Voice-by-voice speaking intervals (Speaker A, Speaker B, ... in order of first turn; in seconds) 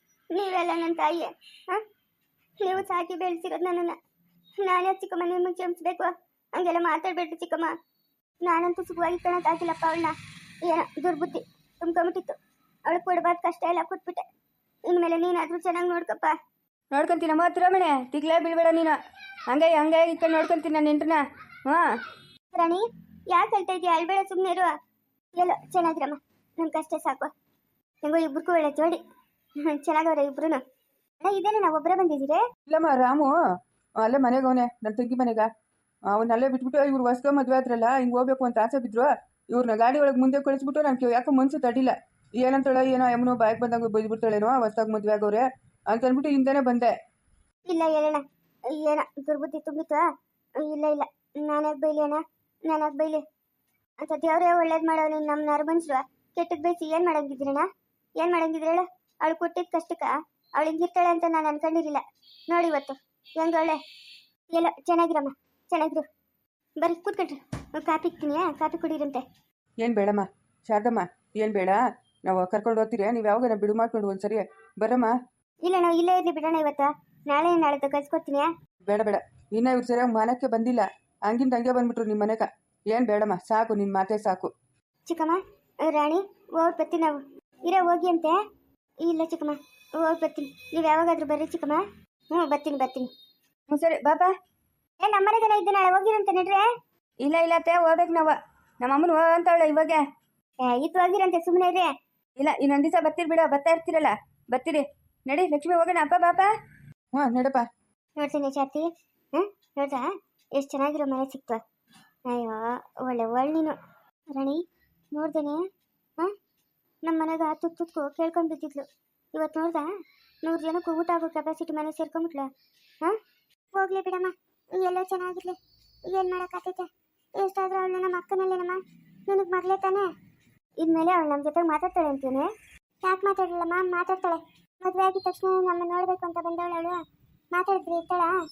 Speaker A: 0.3-1.8, 2.6-4.0, 4.6-7.7, 8.4-14.2, 14.9-16.3, 22.5-24.7, 25.3-27.3, 28.0-29.0, 29.6-30.6, 31.2-32.4, 47.7-50.0, 50.6-53.2, 54.0-57.7, 58.2-63.8, 64.5-66.0, 66.8-69.2, 75.6-78.5, 85.0-88.4, 89.0-93.1, 95.0-96.7, 100.6-101.9, 108.2-111.6, 112.3-113.8, 114.3-114.6, 115.1-115.6, 117.0-119.9, 120.4-122.5, 123.7-130.1, 130.8-132.5, 133.0-137.0, 137.5-138.3
Speaker B: 16.9-19.0, 19.5-21.8, 93.7-94.3, 97.2-100.0, 102.4-106.5
Speaker C: 32.7-33.3, 34.0-35.5, 36.1-46.9, 69.8-75.1, 78.8-84.5, 107.1-107.7